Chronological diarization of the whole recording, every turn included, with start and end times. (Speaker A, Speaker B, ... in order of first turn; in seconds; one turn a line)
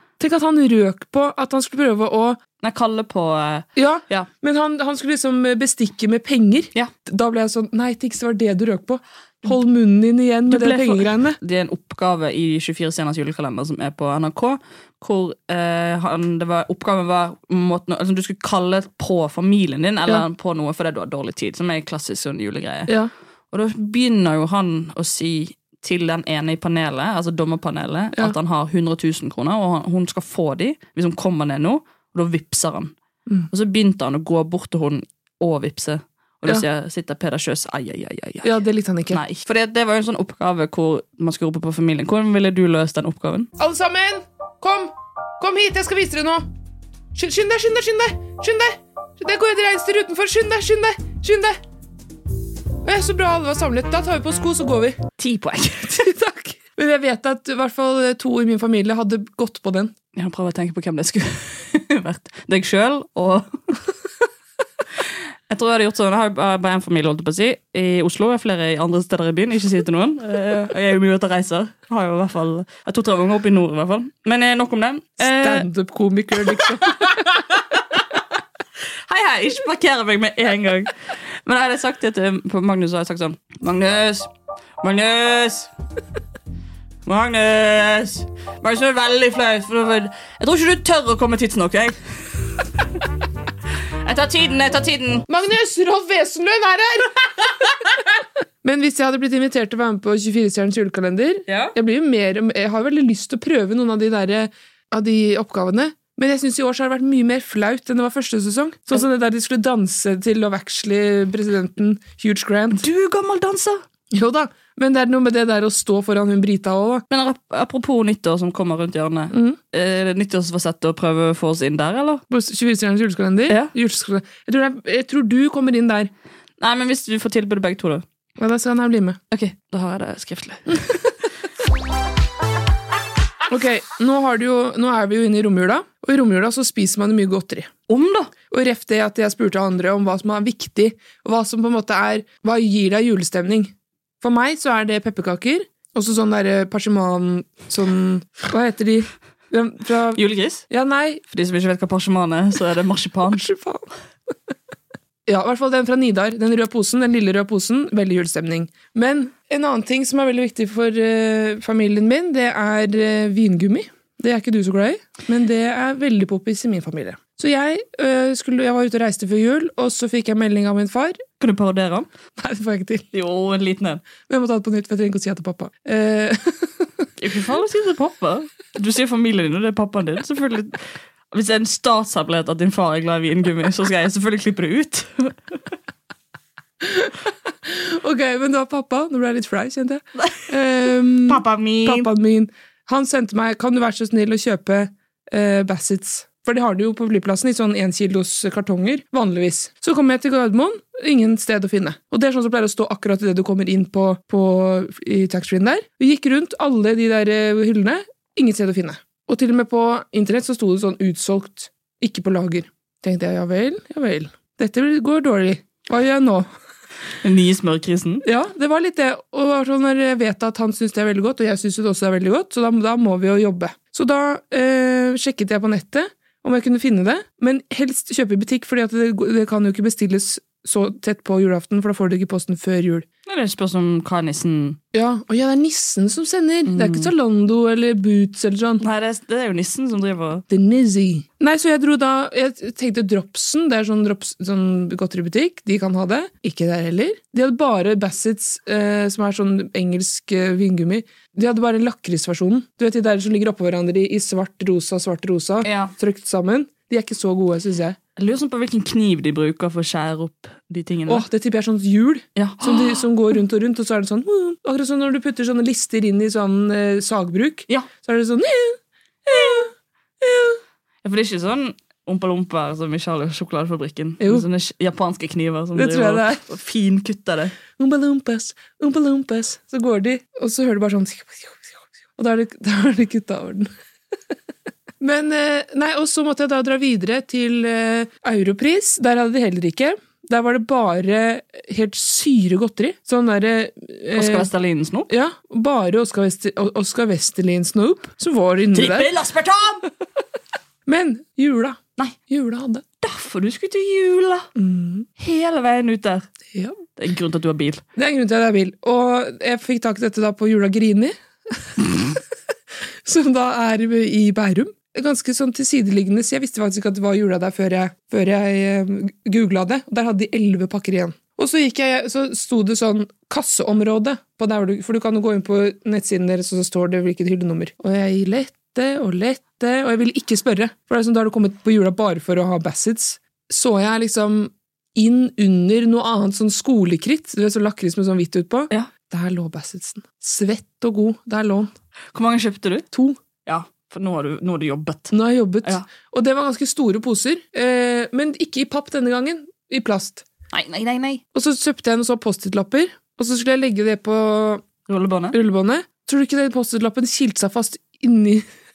Speaker A: 0.2-2.4
Speaker B: 2.6-4.3
Speaker A: 3.8-11.4
Speaker B: 10.5-22.9
Speaker B: 23.5-32.9
Speaker B: 33.5-38.6
Speaker A: 38.4-39.2
Speaker B: 39.1-43.5
Speaker A: 43.6-46.5
Speaker A: 47.1-51.6
Speaker A: 52.8-55.0
Speaker B: 55.2-56.1
Speaker A: 56.0-59.9
Speaker B: 60.1-63.5
Speaker B: 65.5-75.7
Speaker A: 75.2-77.2
Speaker B: 76.6-77.4
Speaker B: 79.1-80.9
Speaker B: 81.5-84.3
Speaker B: 84.8-85.7
Speaker B: 87.1-92.0
Speaker B: 94.0-95.3
Speaker A: 95.3-97.5
Speaker A: 98.6-112.8
Speaker B: 101.5-101.7
Speaker B: 112.7-113.8
Speaker A: 114.1-117.0
Speaker B: 117.1-122.2
Speaker A: 119.3-119.6
Speaker A: 122.3-126.1
Speaker B: 126.6-128.1
Speaker A: 128.4-129.2
Speaker B: 129.3-131.0
Speaker A: 133.5-137.7
Speaker B: 137.9-138.3
Speaker A: 138.5-151.2
Speaker B: 150.2-150.7
Speaker B: 151.3-153.4
Speaker A: 153.3-153.9
Speaker A: 155.3-171.2
Speaker B: 171.4-172.1
Speaker A: 172.4-173.1
Speaker B: 173.1-174.1
Speaker A: 174.2-176.9
Speaker B: 177.2-180.8
Speaker B: 181.3-185.4
Speaker A: 186.8-216.5
Speaker B: 190.2-190.4
Speaker B: 191.3-192.1
Speaker B: 217.2-218.2
Speaker A: 218.2-233.1
Speaker B: 233.3-234.8
Speaker A: 234.9-238.8
Speaker B: 236.7-237.1
Speaker B: 238.8-240.4
Speaker A: 240.5-258.0
Speaker B: 255.6-255.9
Speaker B: 258.2-261.3
Speaker A: 261.1-269.7
Speaker B: 262.4-263.1
Speaker B: 269.3-269.6
Speaker A: 270.2-270.6
Speaker B: 271.0-277.6
Speaker A: 275.8-276.4
Speaker A: 277.8-283.7
Speaker A: 285.0-294.5
Speaker B: 294.2-295.1
Speaker A: 295.1-299.1
Speaker B: 298.7-299.8
Speaker A: 300.9-302.8
Speaker B: 303.0-304.5
Speaker A: 304.6-305.1
Speaker B: 305.2-306.2
Speaker B: 307.0-307.8
Speaker A: 308.0-312.2
Speaker A: 313.1-341.7
Speaker B: 342.1-342.9
Speaker A: 342.9-343.2
Speaker B: 343.4-345.9
Speaker A: 345.1-350.2
Speaker B: 350.5-351.2
Speaker A: 351.3-354.6
Speaker B: 354.9-355.4
Speaker A: 355.3-358.4